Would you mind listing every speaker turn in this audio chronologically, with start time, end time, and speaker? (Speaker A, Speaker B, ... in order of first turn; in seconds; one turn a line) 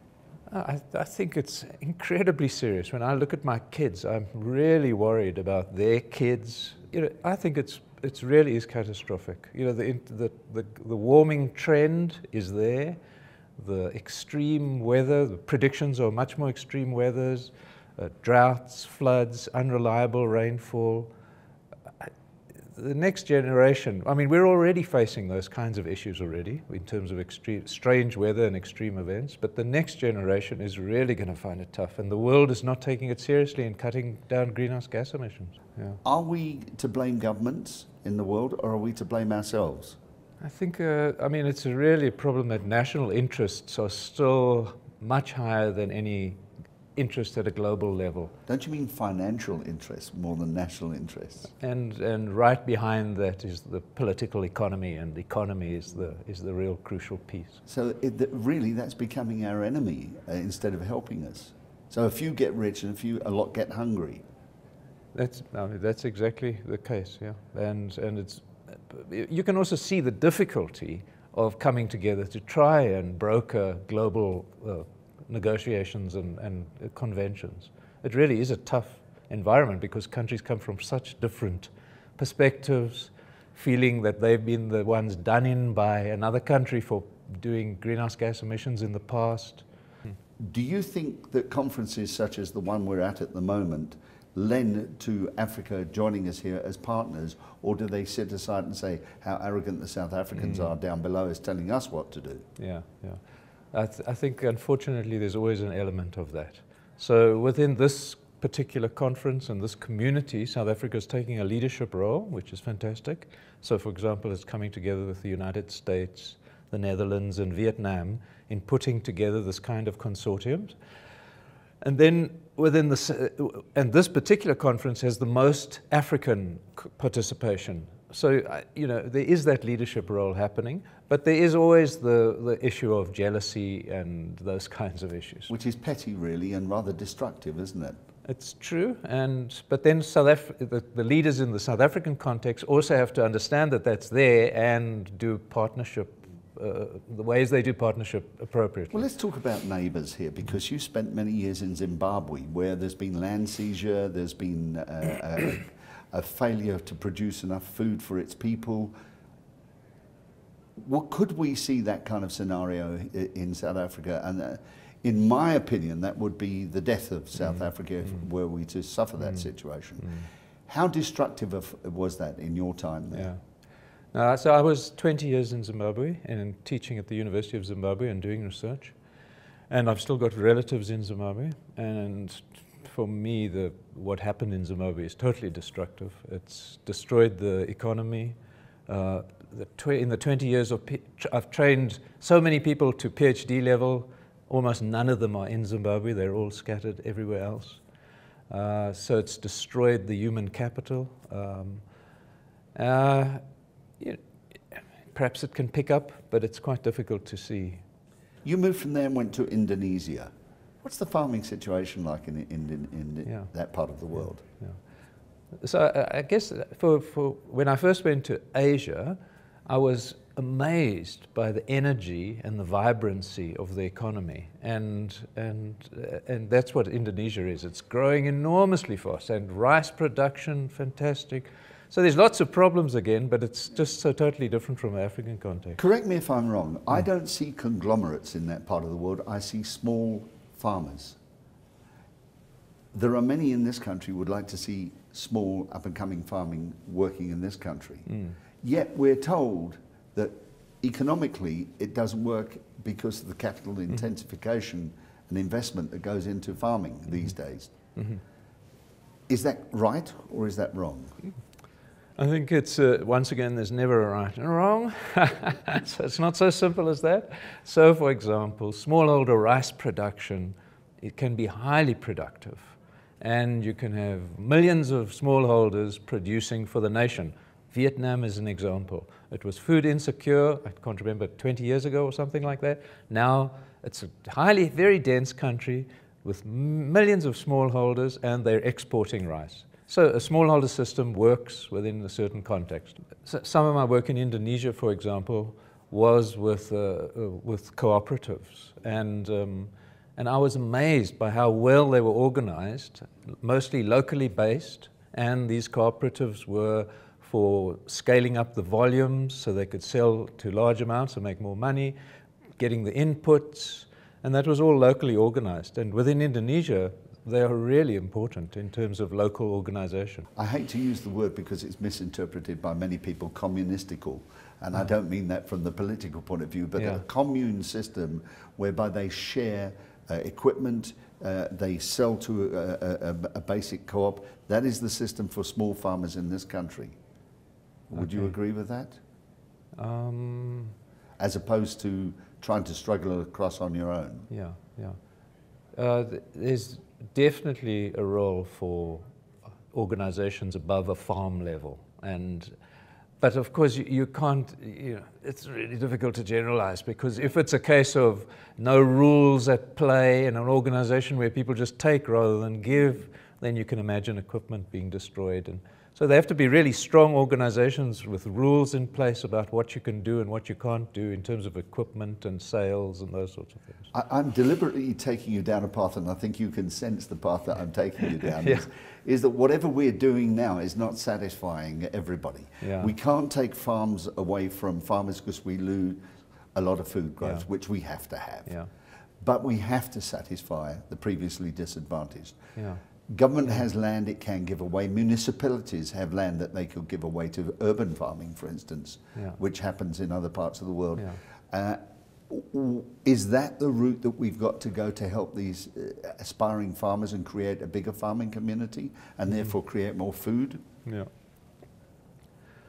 Speaker A: 0.5-13.0
Speaker A: 13.6-21.1
Speaker A: 22.7-36.0
Speaker B: 36.0-40.0
Speaker A: 40.4-46.4
Speaker A: 47.0-48.3
Speaker B: 48.5-51.5
Speaker A: 51.5-57.6
Speaker B: 57.6-64.2
Speaker A: 65.1-89.7
Speaker B: 90.4-102.4
Speaker A: 100.3-100.7
Speaker A: 102.6-103.2
Speaker A: 103.7-120.7
Speaker A: 121.8-135.5
Speaker B: 135.5-138.0
Speaker A: 138.2-149.1
Speaker B: 148.9-158.9
Speaker B: 160.8-173.3
Speaker A: 167.4-168.2
Speaker A: 169.2-169.5
Speaker A: 170.0-170.3
Speaker A: 173.1-173.4
Speaker A: 174.1-179.0
Speaker A: 179.7-188.3
Speaker A: 188.9-197.8
Speaker A: 198.5-201.8
Speaker A: 202.7-203.4
Speaker A: 204.7-207.8
Speaker B: 208.4-210.3
Speaker B: 210.8-214.4
Speaker A: 214.2-214.8
Speaker A: 215.6-235.8
Speaker B: 235.8-241.2
Speaker B: 242.9-257.7
Speaker A: 248.1-248.4
Speaker A: 257.9-258.2
Speaker B: 259.3-261.2
Speaker A: 262.2-311.9
Speaker A: 312.6-320.2
Speaker B: 320.4-336.9
Speaker A: 326.8-327.0
Speaker B: 337.9-339.0
Speaker A: 337.9-338.3
Speaker A: 339.8-340.7
Speaker B: 341.2-344.3
Speaker A: 344.3-345.0
Speaker A: 345.8-349.0
Speaker A: 349.7-352.6
Speaker A: 353.2-373.9
Speaker B: 373.9-386.0
Speaker A: 382.6-382.9
Speaker B: 386.5-388.6
Speaker B: 389.2-392.4
Speaker A: 392.5-392.8
Speaker B: 393.0-410.6
Speaker A: 409.3-409.5
Speaker A: 410.8-411.1